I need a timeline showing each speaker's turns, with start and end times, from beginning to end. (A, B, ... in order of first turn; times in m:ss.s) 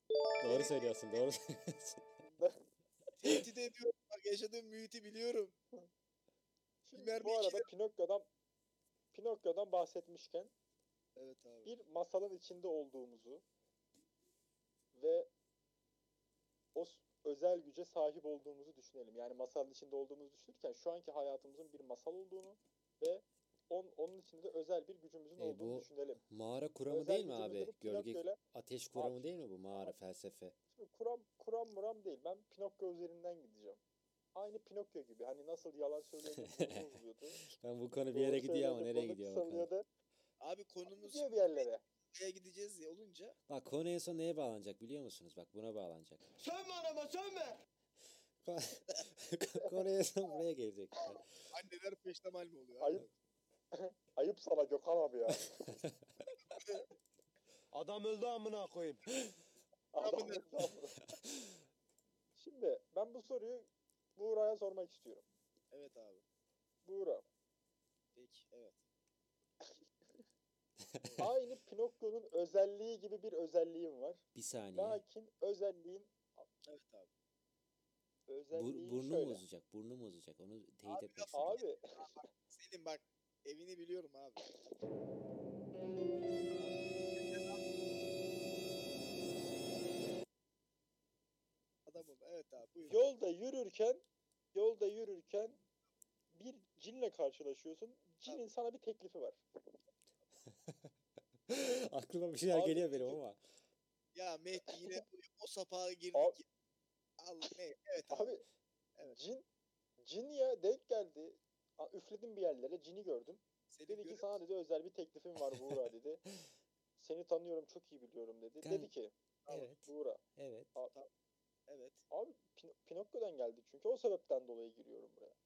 0:00.4-0:02.0 A
0:00.4-0:01.3 B
0:02.2-0:02.6 C
0:03.2-0:05.6 B
0:06.8-0:08.3 C
0:06.9-0:07.7 B
0:09.1-0:10.5 C
0:11.2-0:11.7 B
0:11.6-0:13.4 C
0:14.9-0:15.3 C
0:16.7-0:26.2 C
0:25.4-0:30.6 A
0:26.9-0:28.4 C
0:29.0-0:30.0 C
0:30.7-0:33.8 C
0:34.4-0:37.5 C
0:36.4-0:36.8 A
0:37.4-0:39.7 A
0:38.1-0:39.9 C
0:40.4-0:43.4 B
0:40.8-0:41.8 C
0:43.5-0:46.2 A
0:46.4-0:47.6 D
0:48.4-0:51.2 A
0:49.6-0:49.9 C
0:51.0-0:53.1 B
0:52.8-0:53.1 C
0:53.7-0:55.8 C
0:55.6-0:56.0 A
0:56.5-0:56.8 B
0:57.7-0:59.0 D
0:59.1-0:59.4 A
0:59.9-1:01.0 C
1:00.0-1:00.5 B
1:01.1-1:01.5 A
1:02.4-1:05.2 C
1:05.7-1:06.2 B
1:06.8-1:07.3 C
1:08.2-1:08.8 B
1:10.8-1:11.3 A
1:11.0-1:11.3 B
1:11.2-1:16.5 C
1:14.4-1:15.0 A
1:16.7-1:17.1 B
1:18.3-1:19.4 C
1:18.5-1:21.6 A
1:20.9-1:24.5 B
1:21.3-1:22.2 C
1:24.5-1:24.8 C
1:27.2-1:27.6 B
1:31.9-1:33.0 B
1:32.9-1:35.6 C
1:36.3-1:39.4 C
1:40.5-1:40.9 A
1:41.5-1:43.4 A
1:42.5-1:43.2 C
1:44.2-1:46.4 B
1:47.2-1:48.4 B
1:48.1-1:48.4 C
1:49.0-1:49.4 C
1:50.0-1:56.2 C
1:53.7-1:54.4 B
1:55.5-1:55.8 A
1:57.0-1:59.1 C
1:58.6-1:58.9 A
1:59.5-2:00.7 A
1:59.8-2:00.2 C
2:01.7-2:02.0 B
2:02.1-2:05.4 C